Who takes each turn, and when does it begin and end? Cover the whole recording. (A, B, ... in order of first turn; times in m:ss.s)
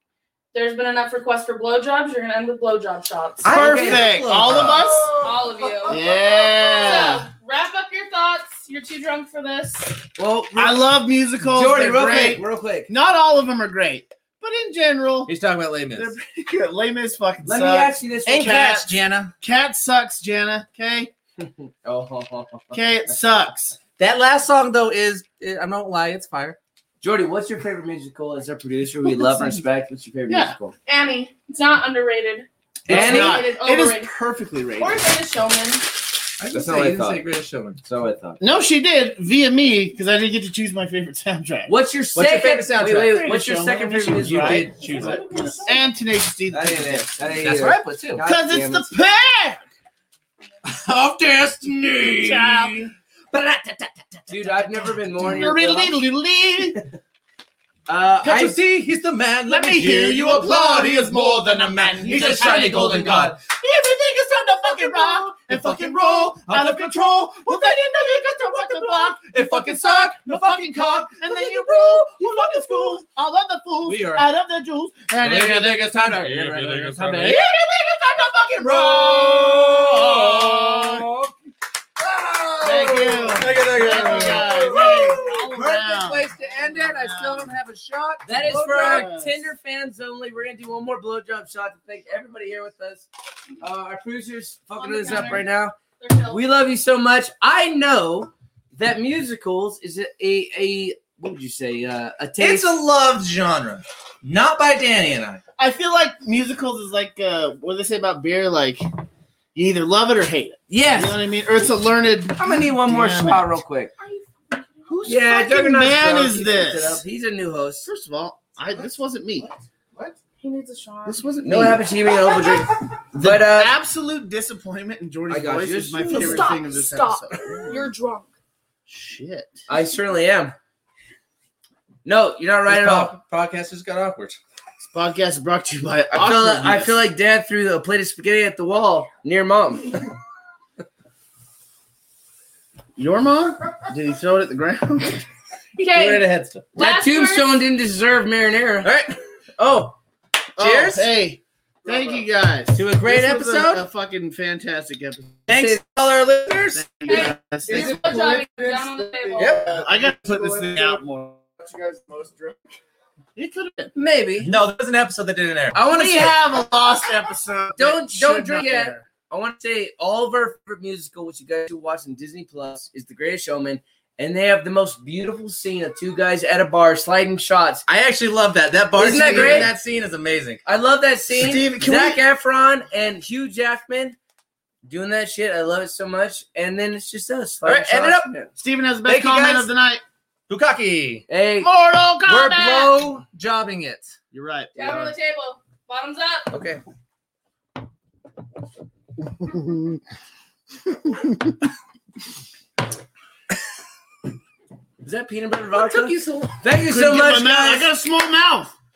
0:00.5-0:03.4 A
0:03.4-0:05.0 B
0:03.4-0:05.1 C
0:03.5-0:04.1 D
0:04.6-0:07.1 E
0:05.2-0:10.0 A
0:05.9-0:07.3 C
0:10.2-0:10.8 D
0:10.6-0:15.3 C
0:11.5-0:12.9 D
0:15.3-0:16.1 B
0:15.9-0:18.9 C
0:17.4-0:18.6 D
0:18.3-0:19.3 B
0:19.4-0:21.1 C
0:21.4-0:23.2 D
0:22.7-0:23.8 C
0:24.0-0:26.6 B
0:27.0-0:30.7 D
0:29.0-0:29.6 C
0:30.3-0:30.6 C
0:30.8-0:34.1 A
0:32.9-0:33.3 B
0:32.9-0:33.4 D
0:32.9-0:35.0 C
0:34.8-0:36.0 A
0:36.4-0:37.8 B
0:36.4-0:37.2 D
0:37.8-0:38.4 D
0:38.4-0:41.7 C
0:41.7-0:45.1 D
0:42.1-0:43.3 B
0:42.9-0:47.2 C
0:44.2-0:45.6 B
0:46.5-0:48.9 D
0:47.3-0:48.2 B
0:48.2-0:49.6 C
0:50.6-0:54.3 B
0:52.2-0:52.9 C
0:54.3-0:56.0 D
0:54.5-0:56.8 C
0:57.9-0:58.6 D
0:58.2-1:03.4 B
0:59.5-1:17.4 C
1:02.1-1:03.4 D
1:04.3-1:13.0 B
1:13.8-1:14.2 B
1:15.2-1:21.3 B
1:18.6-1:21.1 C
1:22.0-1:29.1 B
1:22.6-1:27.5 C
1:28.2-1:33.1 D
1:28.4-1:29.4 C
1:33.6-1:35.7 D
1:34.8-1:35.5 A
1:36.0-1:36.4 A
1:36.3-1:42.7 D
1:42.4-1:45.4 B
1:45.6-1:48.8 C
1:49.5-1:53.6 C
1:50.7-1:51.2 D
1:52.4-1:53.9 D
1:54.0-1:54.8 A
1:54.9-1:57.0 C
1:55.0-1:57.9 D
1:57.8-1:59.5 C
1:59.9-2:00.2 E
2:00.4-2:01.4 A
2:01.1-2:01.8 C
2:01.4-2:03.7 D
2:03.2-2:07.9 C
2:05.3-2:06.5 D
2:06.0-2:08.3 A
2:08.9-2:09.6 C
2:09.7-2:10.5 D
2:12.0-2:13.1 D
2:12.7-2:14.4 B
2:14.8-2:17.0 C
2:16.1-2:20.0 D
2:23.0-2:25.2 C
2:25.8-2:27.6 A
2:25.9-2:26.6 B
2:26.7-2:28.9 D
2:28.8-2:30.0 B
2:30.6-2:31.1 B
2:30.6-2:35.4 C
2:31.8-2:32.3 E
2:32.7-2:33.8 B
2:35.5-2:36.8 B
2:35.5-2:35.8 D
2:36.7-2:38.0 C
2:37.1-2:39.6 A
2:37.7-2:42.8 E
2:39.4-2:39.7 B
2:39.6-2:41.4 C
2:43.4-2:43.9 C
2:44.0-2:45.8 B
2:45.7-2:46.4 D
2:45.9-2:49.0 C
2:47.8-2:57.8 D
2:57.9-3:00.6 B
2:59.0-2:59.7 D
2:59.0-2:59.7 C
3:00.6-3:04.2 D
3:01.3-3:02.2 C
3:04.8-3:08.5 D
3:07.6-3:08.3 B
3:08.6-3:10.0 C
3:09.0-3:09.7 B
3:10.5-3:11.2 B
3:11.3-3:11.7 D
3:11.6-3:13.0 C
3:12.2-3:14.2 B
3:14.3-3:15.1 C
3:14.8-3:16.5 A
3:16.5-3:16.8 D
3:19.4-3:20.0 C
3:20.9-3:21.5 C
3:25.0-3:27.9 D
3:25.7-3:26.6 B
3:26.8-3:28.7 C